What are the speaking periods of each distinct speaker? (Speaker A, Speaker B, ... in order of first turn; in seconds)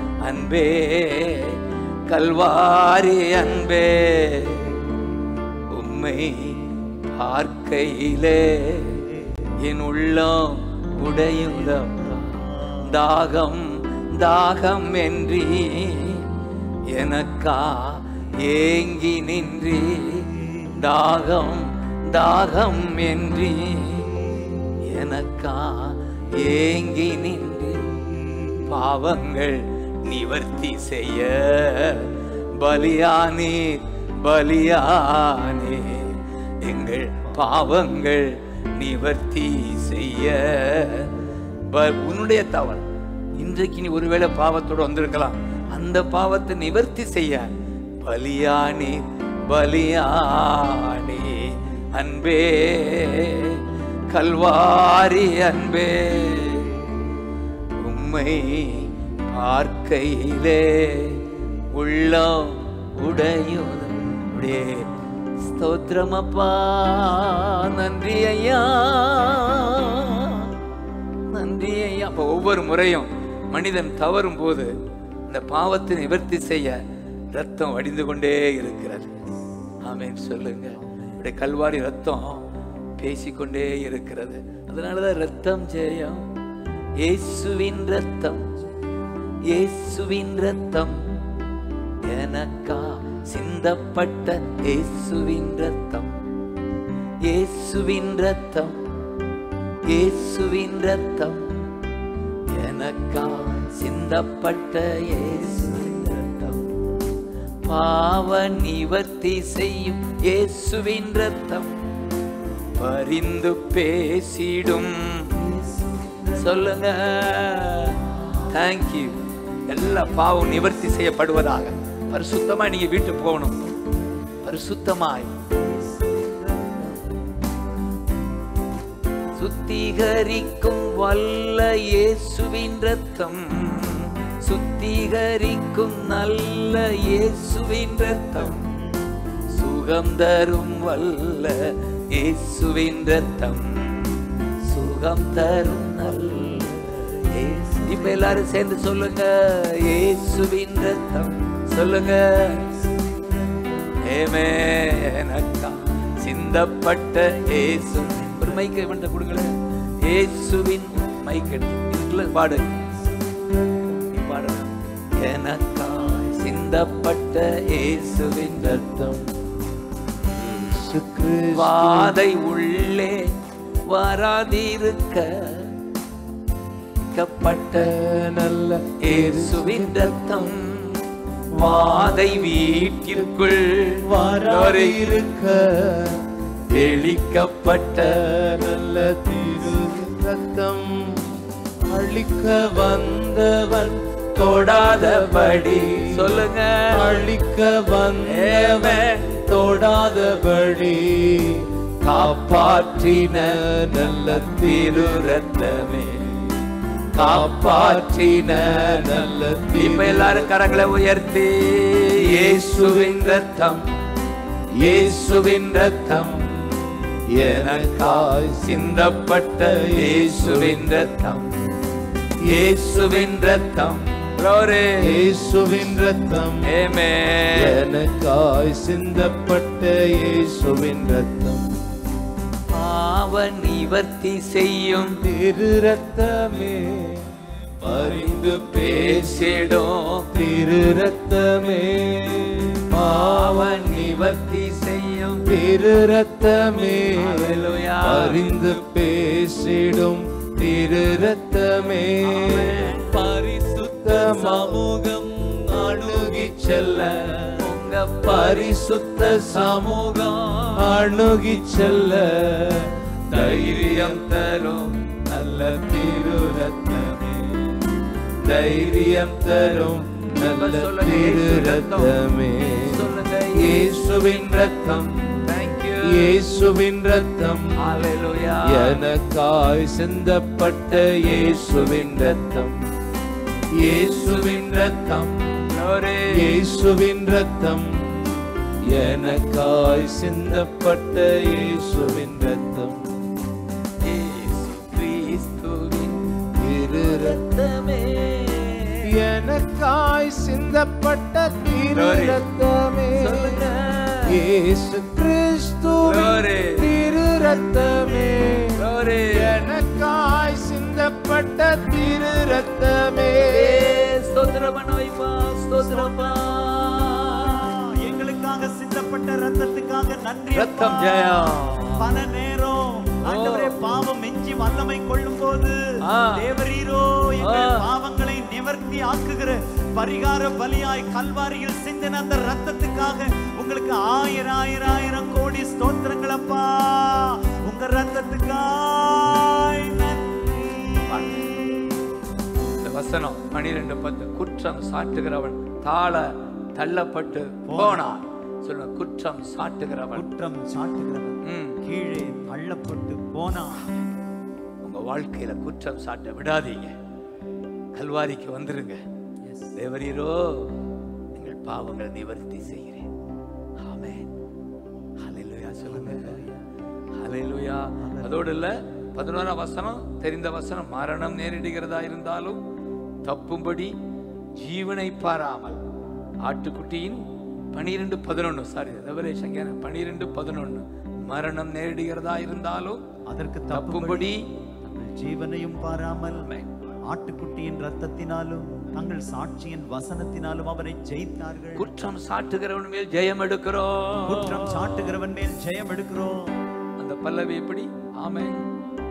Speaker A: 0.2-4.8, 5.7-6.6, 7.1-9.0, 9.6-16.2, 16.9-20.3, 20.8-24.1, 24.8-27.8, 28.7-41.1, 41.7-42.8, 43.3-47.5, 48.0-56.9, 57.8-64.9, 65.4-70.5, 71.3-74.7, 75.3-76.8, 77.3-79.1, 79.8-82.4, 83.0-86.2, 87.0-88.5, 89.5-91.0, 92.1-96.1, 97.2-98.8, 99.9-101.5, 102.5-106.7, 107.7-111.7, 112.8-115.3, 116.3-118.0, 118.5-119.2, 119.7-123.5, 124.4-125.3, 129.3-138.7, 139.5-146.7, 147.3-152.6, 154.0-159.5, 160.0-162.8, 164.0-168.8, 170.4-170.8, 171.5-173.2, 173.9-175.7, 177.1-177.9, 179.0-180.9, 181.6-185.1, 186.7-188.2, 194.4-197.3, 198.3-199.3, 202.0-203.6, 204.4-206.3, 207.1-209.2, 209.7-213.8, 214.8-216.4, 217.4-221.5, 222.6-225.1, 226.7-227.8, 232.7-235.2, 238.6-240.3, 242.9-245.4, 247.1-248.6, 252.2-253.2, 254.1-254.8, 257.6-260.9, 263.3-267.3, 270.4-272.1, 272.9-274.8, 275.3-276.4, 277.8-279.0, 281.2-282.3, 285.7-286.5, 294.0-296.2, 296.9-299.0, 301.9-302.4, 303.1-304.3, 306.0-306.8, 308.8-309.6, 313.4-317.7, 320.5-322.1, 323.2-324.0, 326.0-326.4, 327.4-327.8, 341.1-341.5, 342.8-350.2, 351.4-351.8, 354.8-356.9, 357.9-359.0, 359.7-360.7, 361.3-363.1, 363.8-364.3, 365.2-366.4, 367.2-372.6, 373.2-373.9, 374.6-375.8, 376.4-377.2, 377.7-383.0, 383.7-384.4, 386.4-386.7, 391.7-395.1, 397.0-398.6
Speaker B: 11.3-12.9, 20.4-20.8, 24.1-24.8, 27.9-28.7, 80.8-81.2, 115.3-116.9, 117.9-118.5, 125.5-127.1, 138.4-139.0, 145.8-148.6, 152.4-154.0, 157.2-158.7, 315.8-316.4, 317.4-325.8, 326.3-341.9, 347.7-348.2, 350.1-353.9, 359.5-359.8, 365.8-366.6, 368.0-368.5, 383.3-386.5, 387.1-391.9, 394.2-396.5
Speaker C: 168.4-169.2, 170.5-172.2, 177.8-180.2, 181.6-182.6, 184.0-186.2, 187.8-191.2, 191.9-205.4, 207.2-210.5, 212.2-213.5, 214.8-216.4, 217.3-221.0, 222.4-224.0, 225.0-226.7, 227.5-231.6, 235.2-237.3, 237.8-239.7, 240.3-244.4, 245.4-257.6, 258.2-260.1, 260.8-264.3, 265.6-267.2, 268.4-275.4, 276.0-277.7, 278.6-282.8, 283.8-285.5, 286.3-287.9, 288.9-293.0, 296.6-297.4, 299.0-303.6, 304.2-313.9